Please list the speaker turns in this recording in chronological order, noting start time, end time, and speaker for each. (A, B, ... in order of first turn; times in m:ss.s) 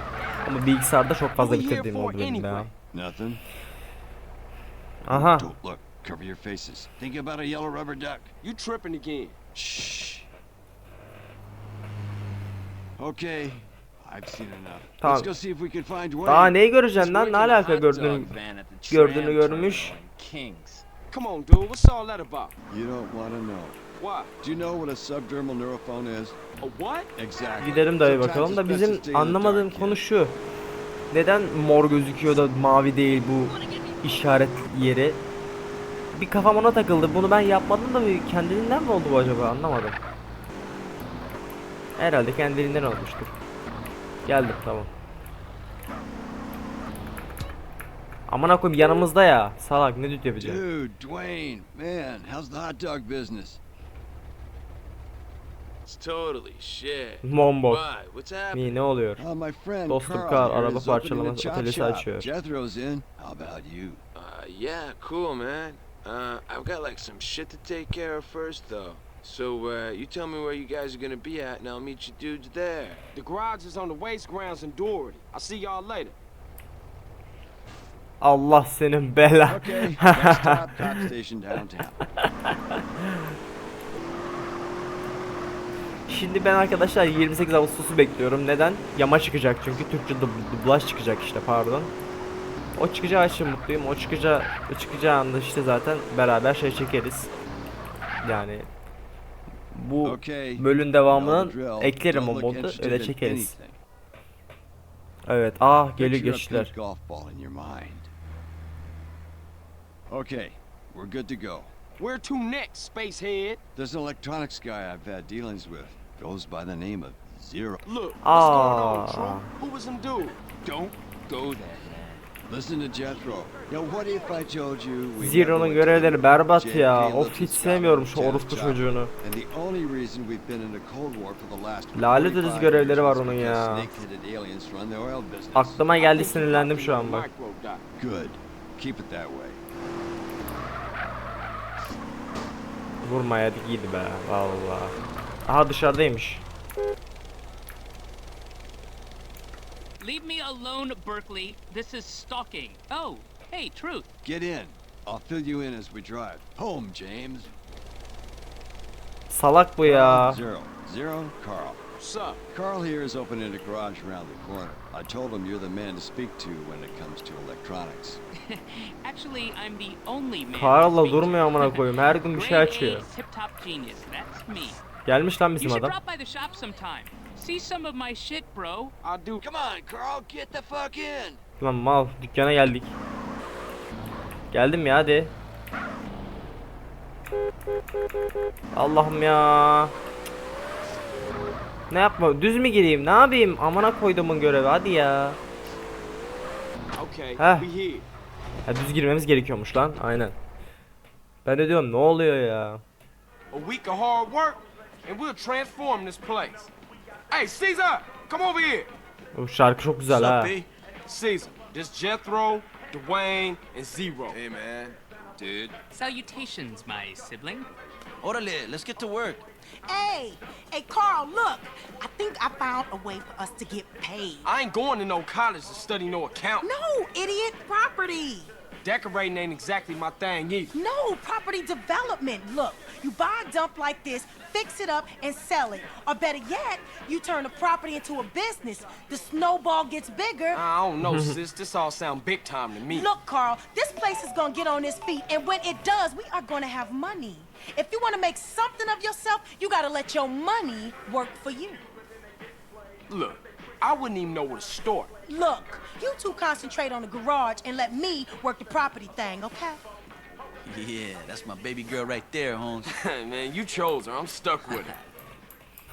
0:00.4-0:02.7 A
0:01.4-0:02.7 B
0:02.9-0:03.4 C
0:05.0-0:05.5 A
0:05.1-0:08.3 C
0:08.4-0:09.4 B
0:09.6-0:10.3 C
0:13.0-0:16.6 C
0:15.0-0:15.3 A
0:16.3-0:18.3 A
0:17.0-0:20.8 D
0:18.9-0:20.0 A
0:21.1-0:22.6 B
0:22.7-0:23.8 C
0:24.0-0:24.3 B
0:24.4-0:26.4 C
0:26.6-0:27.1 B
0:27.2-0:30.1 C
0:27.6-0:30.4 A
0:31.1-0:35.2 A
0:36.1-0:40.0 A
0:42.0-0:43.3 A
0:44.3-0:44.9 A
0:48.3-0:50.6 A
0:50.4-0:53.6 C
0:55.9-0:58.7 D
0:57.2-0:57.9 A
0:58.5-0:59.2 A
0:59.2-1:04.0 C
0:59.9-1:02.3 A
1:04.2-1:13.0 D
1:13.1-1:16.2 B
1:18.2-1:21.1 A
1:19.5-1:22.0 C
1:26.1-1:31.9 A
1:32.8-1:37.3 A
1:38.2-1:38.7 A
1:39.7-1:43.5 A
1:40.0-1:43.8 C
1:45.3-1:46.7 A
1:46.0-1:48.1 C
1:50.1-1:51.7 C
1:52.0-1:53.6 B
1:53.8-1:57.8 C
1:57.8-2:01.5 B
1:58.2-1:59.5 A
2:01.3-2:02.2 D
2:02.5-2:15.8 C
2:05.2-2:09.1 A
2:12.0-2:13.9 A
2:15.5-2:17.3 A
2:16.0-2:17.8 B
2:18.0-2:19.6 C
2:23.0-2:25.0 A
2:25.5-2:26.4 A
2:30.0-2:34.1 E
2:34.2-2:37.5 C
2:39.3-2:40.4 A
2:39.8-2:41.8 C
2:42.0-2:42.4 B
2:42.5-2:48.2 C
2:48.5-2:54.8 E
2:50.5-2:53.1 A
2:55.0-2:56.0 A
2:55.6-2:58.9 E
2:59.0-2:59.4 B
2:59.4-3:01.4 C
3:01.6-3:02.9 A
3:04.5-3:05.3 A
3:08.7-3:09.9 A
3:11.9-3:15.4 A
3:17.0-3:18.1 B
3:17.4-3:17.7 A
3:18.7-3:20.3 A
3:21.4-3:22.8 A
3:23.5-3:26.7 B
3:27.3-3:28.9 B
3:29.3-3:30.6 A
3:30.1-3:30.6 F
3:31.1-3:34.4 B
3:34.3-3:35.8 D
3:35.9-3:37.7 E
3:38.2-3:39.4 F
3:39.8-3:44.5 G
3:44.4-3:46.7 B
3:46.6-3:48.5 G
3:48.8-3:50.8 B
3:50.7-4:00.6 G
4:00.5-4:03.1 B
4:01.0-4:01.4 A
4:02.9-4:11.8 G
4:13.1-4:15.1 B
4:15.3-4:19.8 G
4:20.6-4:22.9 F
4:22.8-4:25.0 B